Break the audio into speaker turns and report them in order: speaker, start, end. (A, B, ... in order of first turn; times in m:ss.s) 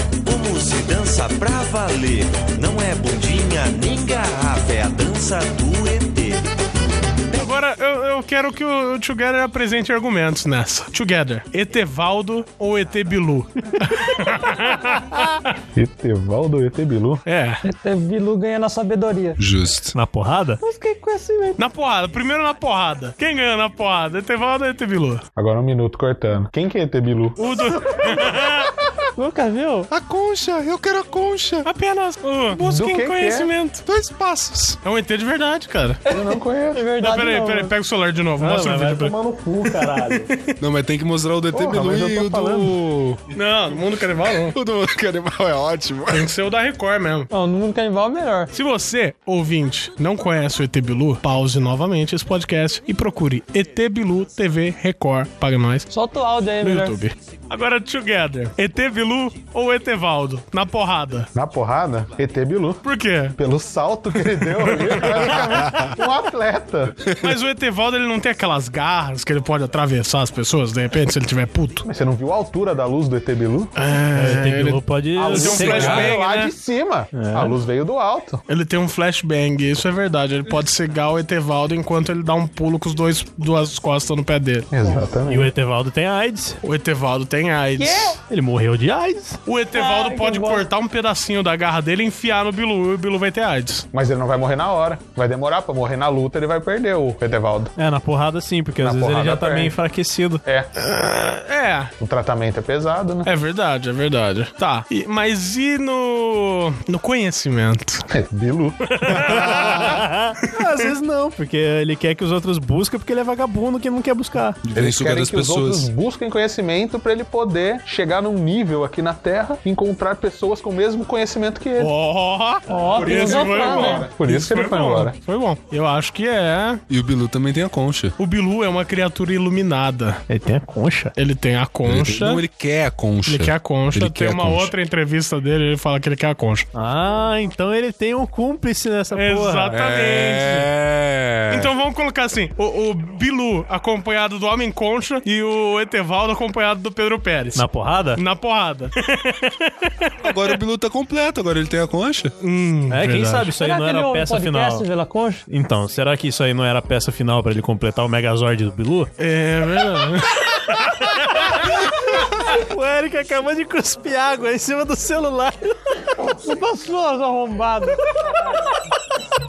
0:00.2-0:06.4 A
0:07.3-0:15.5 B
0:15.7-0:17.2 C
0:17.2-0:17.6 B
0:17.6-0:19.4 D
0:19.4-0:20.0 E
0:19.9-0:20.6 F
0:20.6-0:21.6 D
0:21.6-0:25.2 B
0:25.4-0:28.2 C
0:27.4-0:28.7 B
0:29.2-0:29.9 D
0:29.9-0:31.7 E
0:31.6-0:33.8 B
0:32.6-0:33.5 C
0:33.8-0:34.8 E
0:34.8-0:36.0 B
0:36.1-0:37.7 D
0:36.1-0:36.9 C
0:37.0-0:39.1 B
0:38.4-0:40.3 F
0:39.6-0:40.5 B
0:40.6-0:43.2 E
0:41.5-0:42.7 C
0:43.3-0:44.5 B
0:44.5-0:46.3 E
0:46.1-0:47.3 B
0:47.3-0:48.5 D
0:48.5-0:55.9 B
0:55.9-0:57.0 D
0:56.6-1:01.3 B
1:01.3-1:02.8 C
1:02.8-1:03.4 B
1:03.4-1:06.9 C
1:04.5-1:05.3 B
1:05.1-1:06.0 E
1:07.1-1:07.3 E
1:07.2-1:11.8 B
1:11.8-1:13.7 C
1:13.8-1:16.5 B
1:14.1-1:16.1 F
1:15.2-1:18.4 C
1:17.1-1:17.6 F
1:18.5-1:24.7 B
1:24.7-1:25.5 C
1:25.3-1:26.6 F
1:26.6-1:28.2 B
1:27.8-1:28.2 D
1:28.3-1:29.4 F
1:29.4-1:33.9 B
1:29.7-1:30.7 D
1:33.9-1:37.7 C
1:37.8-1:40.4 F
1:38.8-1:39.8 C
1:40.8-1:41.9 B
1:42.0-1:43.3 C
1:43.2-1:48.0 B
1:48.1-1:50.0 C
1:49.0-1:49.7 B
1:49.2-1:50.0 E
1:49.8-1:54.6 F
1:54.6-1:55.9 E
1:54.7-2:01.9 C
2:01.8-2:06.8 B
2:02.7-2:04.1 D
2:02.9-2:05.1 C
2:06.9-2:08.1 E
2:08.2-2:10.2 B
2:10.3-2:11.1 F
2:11.2-2:12.4 B
2:11.8-2:14.7 E
2:13.2-2:16.6 B
2:16.7-2:19.7 F
2:19.1-2:20.7 B
2:19.7-2:21.7 E
2:21.5-2:27.6 B
2:27.5-2:28.2 F
2:28.2-2:30.5 B
2:30.2-2:32.3 E
2:32.4-2:33.5 B
2:32.9-2:34.8 F
2:33.6-2:35.4 D
2:35.5-2:39.1 F
2:39.2-2:40.9 B
2:41.0-2:41.9 F
2:42.4-2:45.8 F
2:46.3-2:48.0 D